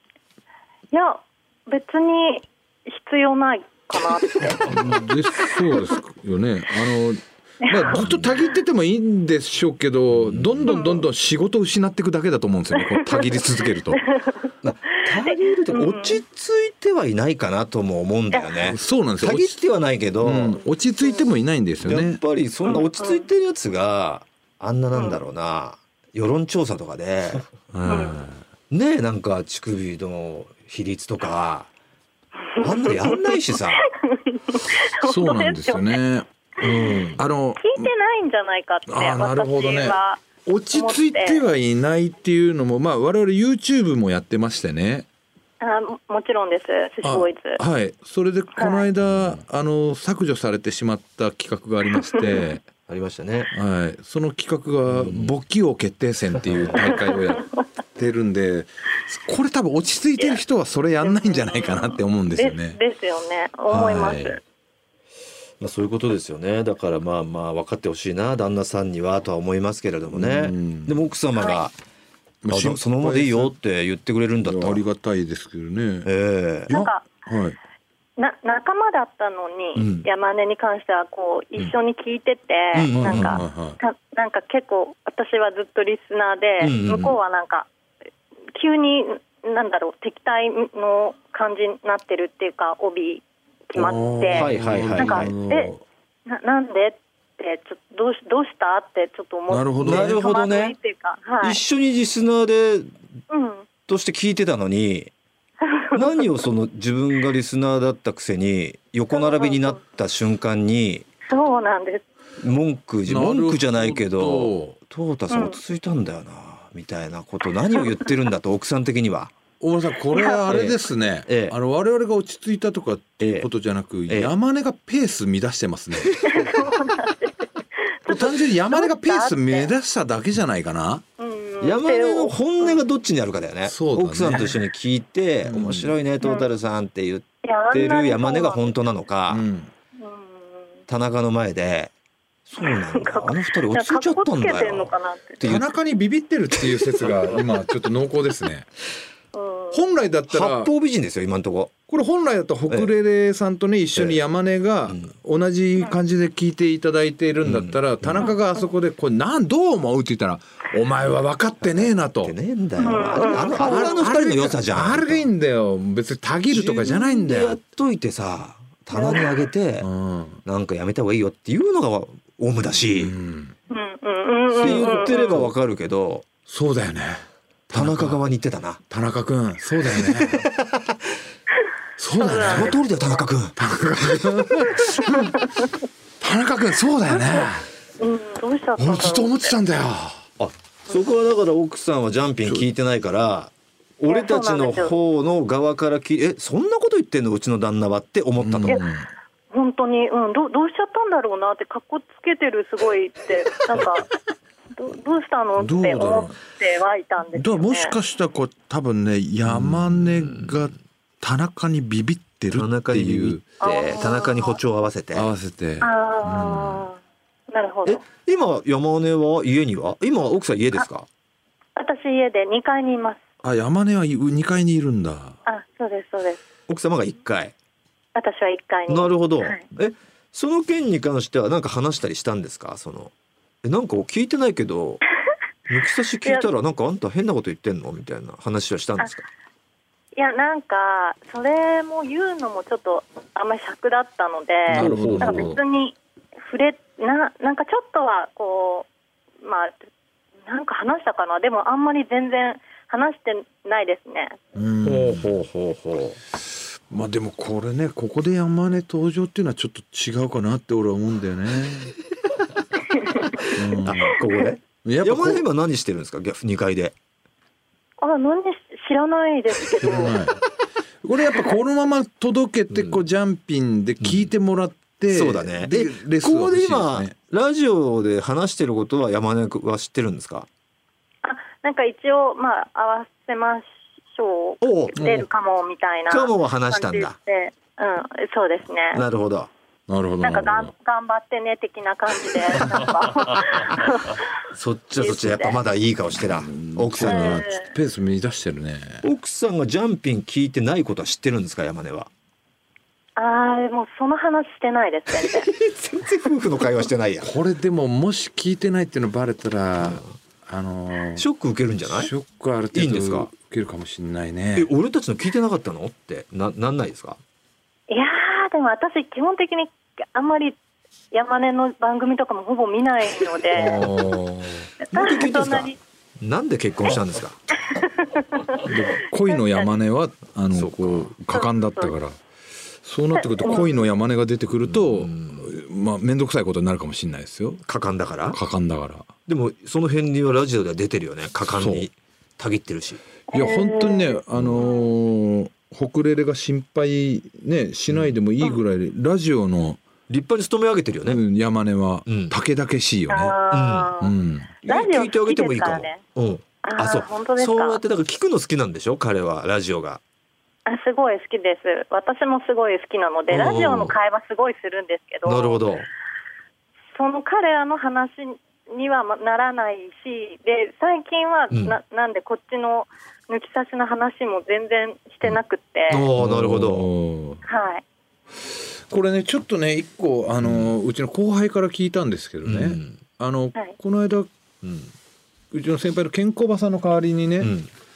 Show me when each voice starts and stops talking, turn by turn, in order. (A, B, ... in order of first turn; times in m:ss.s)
0:00.9-0:04.7 A
0:04.6-0:14.0 B
0:07.6-0:08.0 A
0:07.9-0:08.3 C
0:10.1-0:10.7 C
0:10.7-0:11.0 A
0:12.8-0:13.4 A
0:13.9-0:14.4 A
0:14.6-0:20.6 C
0:15.2-0:16.2 A
0:18.3-0:18.7 A
0:18.7-0:19.6 B
0:20.2-0:22.2 B
0:21.8-0:27.5 C
0:22.6-0:23.3 A
0:24.9-0:25.2 A
0:27.7-0:28.4 B
0:27.8-0:28.1 A
0:28.7-0:31.7 C
0:32.5-0:36.0 A
0:32.6-0:33.8 C
0:35.0-0:37.9 B
0:36.6-0:37.2 C
0:37.6-0:40.2 A
0:38.9-0:45.0 B
0:40.7-0:41.4 A
0:45.6-0:47.6 A
0:47.0-0:52.6 B
0:48.6-0:48.9 A
0:52.1-0:52.4 A
0:52.9-0:53.5 C
0:53.5-1:02.8 B
0:54.9-0:55.3 C
0:56.5-0:56.8 C
1:01.0-1:04.4 A
1:03.7-1:04.4 B
1:05.6-1:11.7 C
1:10.1-1:11.0 B
1:11.4-1:11.6 A
1:12.4-1:13.5 B
1:12.5-1:14.8 C
1:14.4-1:16.1 B
1:16.0-1:16.8 C
1:16.7-1:17.0 A
1:16.7-1:17.6 B
1:18.2-1:27.7 A
1:19.8-1:20.0 C
1:22.7-1:23.4 C
1:22.9-1:23.8 B
1:26.6-1:27.2 C
1:28.5-1:35.7 A
1:33.8-1:35.8 B
1:34.3-1:35.3 C
1:36.3-1:41.6 A
1:39.5-1:40.2 B
1:39.8-1:40.7 C
1:41.4-1:42.9 C
1:43.3-1:43.7 A
1:43.9-1:45.1 C
1:45.6-1:46.3 A
1:45.9-1:51.0 C
1:49.1-1:49.8 A
1:51.3-1:52.0 A
1:52.4-1:59.3 C
1:53.1-1:54.8 B
1:55.3-1:55.6 A
1:59.6-2:06.2 B
2:00.1-2:00.4 A
2:00.5-2:01.5 C
2:03.2-2:03.5 C
2:06.2-2:09.7 A
2:08.1-2:11.0 B
2:11.2-2:12.8 A
2:11.6-2:19.4 C
2:13.6-2:14.6 B
2:15.4-2:15.9 B
2:16.2-2:16.5 A
2:17.4-2:18.7 A
2:19.3-2:19.7 B
2:20.0-2:20.7 A
2:20.9-2:21.9 C
2:22.5-2:25.7 C
2:22.6-2:25.4 A
2:25.4-2:28.7 B
2:29.3-2:29.9 A
2:29.7-2:30.7 B
2:30.3-2:31.7 C
2:31.9-2:42.3 B
2:34.9-2:35.1 C
2:37.4-2:38.3 C
2:41.6-2:45.3 C
2:42.8-2:44.0 A
2:42.9-2:47.6 B
2:46.5-2:49.9 C
2:48.9-2:49.4 A
2:49.8-2:50.4 B
2:50.4-2:53.1 C
2:52.9-2:53.5 B
2:53.7-2:55.5 A
2:54.5-2:56.2 C
2:56.5-2:58.2 B
2:57.7-2:58.8 C
2:58.9-3:00.4 B
3:00.0-3:01.2 C
3:02.0-3:02.8 B
3:02.2-3:03.2 A
3:02.3-3:04.7 C
3:03.6-3:05.4 B
3:05.1-3:05.7 A
3:06.2-3:07.7 B
3:08.0-3:09.5 A
3:08.8-3:10.2 B
3:10.4-3:18.8 C
3:14.1-3:14.9 A
3:18.4-3:19.1 B
3:19.5-3:24.1 A
3:24.7-3:27.9 A
3:25.6-3:26.3 B
3:27.3-3:33.4 B
3:29.4-3:30.7 C
3:32.5-3:35.3 C
3:33.6-3:34.6 A
3:35.1-3:36.9 B
3:35.8-3:37.0 A
3:37.5-3:38.0 A
3:37.8-3:41.1 C
3:41.8-3:43.2 A
3:43.4-3:45.4 B
3:45.4-3:46.4 A
3:46.7-3:47.5 C
3:48.1-3:49.6 A
3:48.9-3:53.1 C
3:53.6-3:55.0 C
3:55.7-3:59.2 C
4:00.1-4:08.9 A
4:04.7-4:05.6 B
4:04.7-4:05.6 C
4:09.4-4:09.9 A
4:10.4-4:14.4 A
4:14.5-4:15.3 B
4:14.8-4:16.2 C
4:16.9-4:21.9 B
4:23.4-4:27.0 C
4:23.5-4:24.2 B
4:24.8-4:25.4 B
4:28.0-4:30.2 A
4:29.8-4:30.4 B
4:31.0-4:37.1 B
4:34.0-4:34.3 C
4:35.1-4:40.5 C
4:41.2-4:49.0 A
4:44.6-4:45.0 C
4:45.0-4:45.3 B
4:46.1-4:47.1 C
4:48.9-4:49.5 C
4:49.9-4:50.7 B
4:50.2-4:54.3 A
4:54.5-4:57.4 C
4:55.0-4:55.6 A
4:56.2-4:59.0 B
4:57.0-4:57.7 A
4:59.0-5:02.1 C
5:03.2-5:05.5 A
5:05.1-5:07.3 C
5:07.2-5:11.2 B
5:09.8-5:10.1 C
5:11.2-5:12.1 C
5:11.9-5:14.7 B
5:12.7-5:13.3 C
5:14.6-5:17.2 C
5:17.9-5:20.6 A
5:21.1-5:23.8 A
5:23.5-5:24.7 B
5:24.8-5:25.8 A
5:24.9-5:27.4 C
5:27.7-5:28.7 A
5:28.6-5:32.2 B
5:29.3-5:29.7 A
5:30.5-5:31.1 C
5:31.3-5:31.9 A
5:32.8-5:37.6 B
5:33.2-5:33.7 A
5:34.7-5:35.5 C
5:37.6-5:38.4 C
5:38.3-5:39.1 B
5:39.3-5:43.0 C
5:41.5-5:41.9 B
5:43.3-5:44.9 A
5:43.3-5:49.8 B
5:44.3-5:44.7 C
5:50.1-5:51.2 C
5:51.0-5:53.4 B
5:52.0-5:52.3 C
5:53.1-5:56.0 A
5:53.5-5:53.9 C
5:54.0-5:54.5 B
5:54.6-6:00.0 C
5:56.6-5:57.8 A
6:00.6-6:05.7 A
6:03.3-6:03.9 C
6:05.2-6:05.9 C
6:06.9-6:16.0 A
6:11.5-6:11.8 C
6:15.9-6:16.9 C
6:16.2-6:17.4 B
6:17.4-6:17.8 A
6:18.9-6:24.3 B
6:20.4-6:20.7 C
6:22.4-6:23.0 C
6:24.6-6:24.9 C
6:25.5-6:27.5 B
6:27.4-6:27.7 C